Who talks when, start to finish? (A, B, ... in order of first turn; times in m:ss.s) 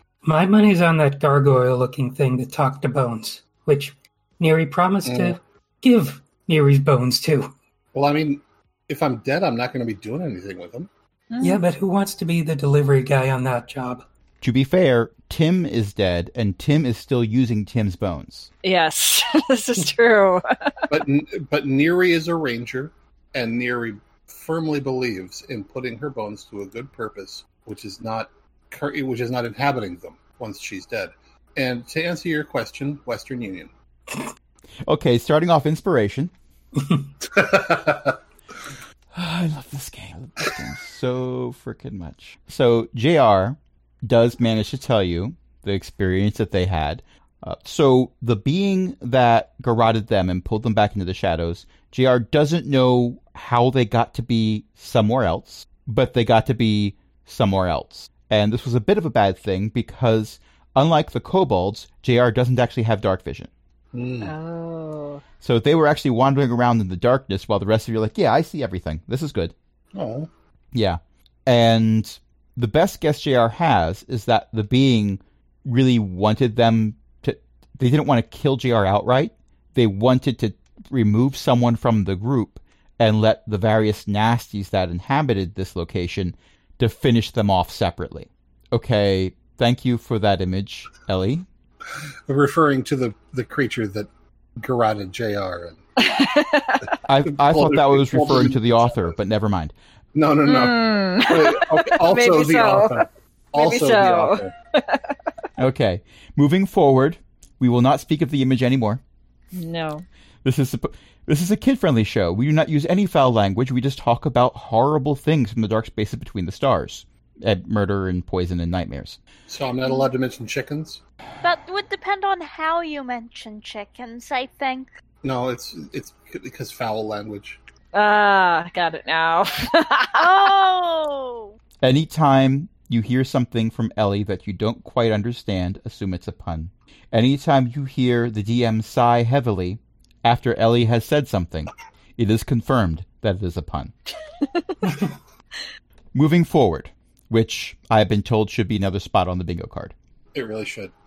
0:00.2-0:07.5 A
0:05.0-0:05.4 B
0:07.9-0:10.9 B
0:11.3-0:11.6 C
0:11.4-0:14.0 A
0:14.4-0:18.5 D
0:18.6-0:20.9 C
0:20.9-0:33.7 B
0:34.9-0:36.3 D
0:37.2-0:38.2 B
0:39.1-1:03.5 D
1:03.9-1:04.3 B
1:04.2-1:05.2 C
1:05.4-1:09.5 D
1:09.9-1:10.3 B
1:10.7-1:31.5 D
1:32.3-1:35.8 B
1:36.0-1:37.0 C
1:37.0-1:39.8 D
1:37.2-1:39.0 B
1:40.2-1:44.5 B
1:40.4-1:43.0 C
1:43.6-1:45.2 C
1:45.6-1:49.0 D
1:49.5-1:50.1 C
1:50.4-1:59.2 D
1:59.5-2:01.0 B
2:01.4-2:04.9 E
2:05.2-2:07.6 B
2:07.9-2:10.5 C
2:10.2-2:11.6 E
2:11.8-2:23.9 D
2:24.4-2:24.9 C
2:26.1-2:30.0 D
2:30.3-2:30.9 B